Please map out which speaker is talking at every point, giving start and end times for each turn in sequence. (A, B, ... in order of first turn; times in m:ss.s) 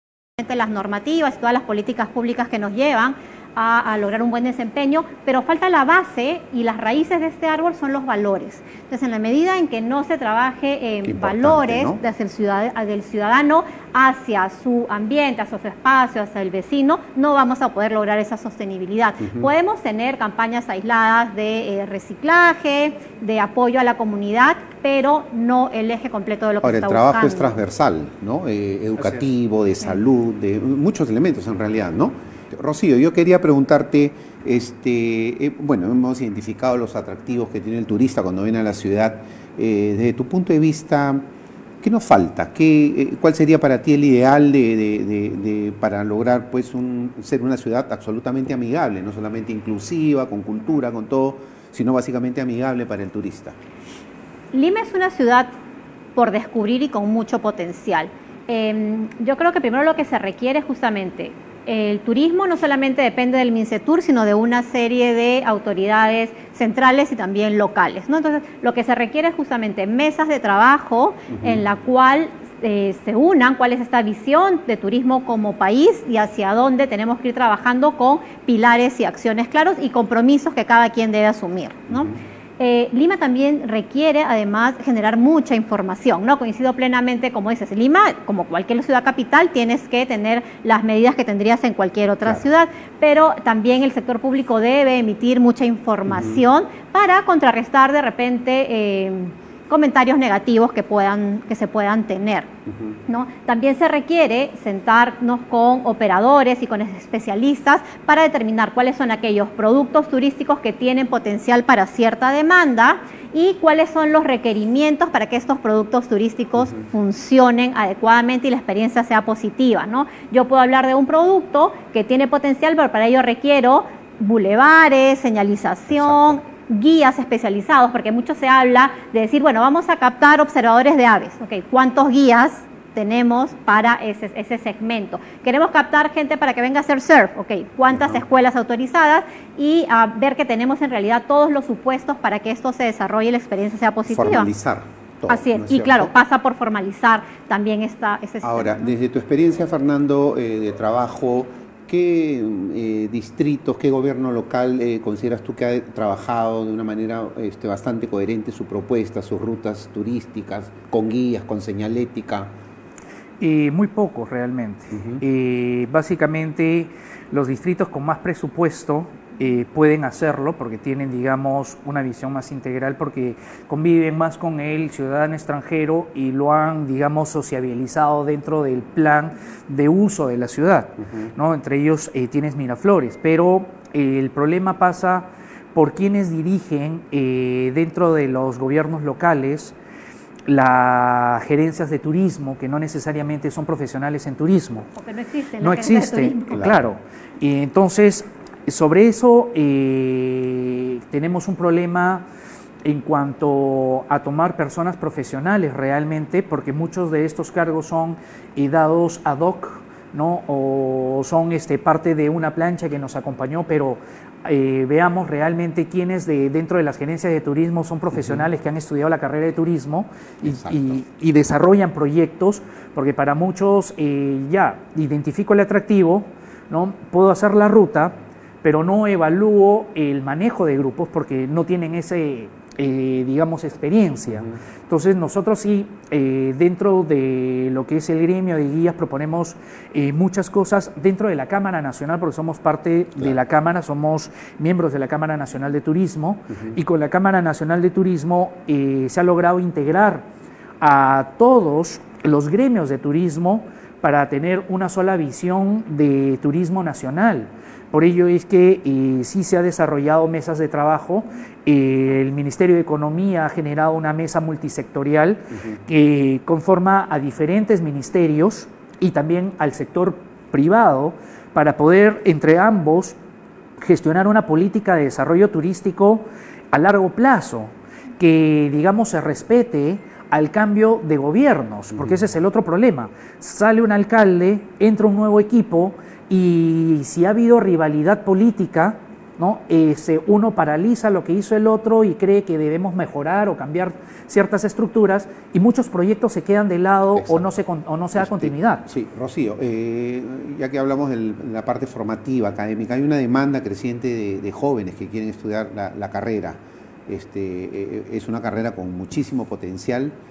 0:00.4-0:27.6 A
0:11.0-0:12.0 B
0:19.2-0:19.5 B
0:26.6-0:41.2 B
0:29.0-0:29.3 C
0:41.8-0:53.6 B
0:54.5-0:55.5 A
0:56.2-1:42.5 A
1:11.3-1:11.6 B
1:21.9-1:22.2 B
1:36.1-1:36.4 B
1:42.7-1:43.0 B
1:43.1-2:24.5 A
2:05.9-2:06.4 B
2:17.9-2:18.2 B
2:24.1-2:26.1 B
2:25.3-2:28.9 A
2:28.4-2:42.5 B
2:43.4-3:09.8 C
2:44.9-2:45.2 B
3:01.0-3:01.3 B
3:10.5-3:14.9 C
3:15.0-3:16.6 A
3:15.6-3:22.2 C
3:22.8-4:10.2 C
3:38.2-3:38.4 B
3:40.4-3:41.0 B
4:06.5-4:06.8 B
4:10.8-4:33.2 C
4:25.5-4:25.8 B
4:33.8-4:58.9 C
4:57.2-4:57.5 B
4:58.2-5:10.2 B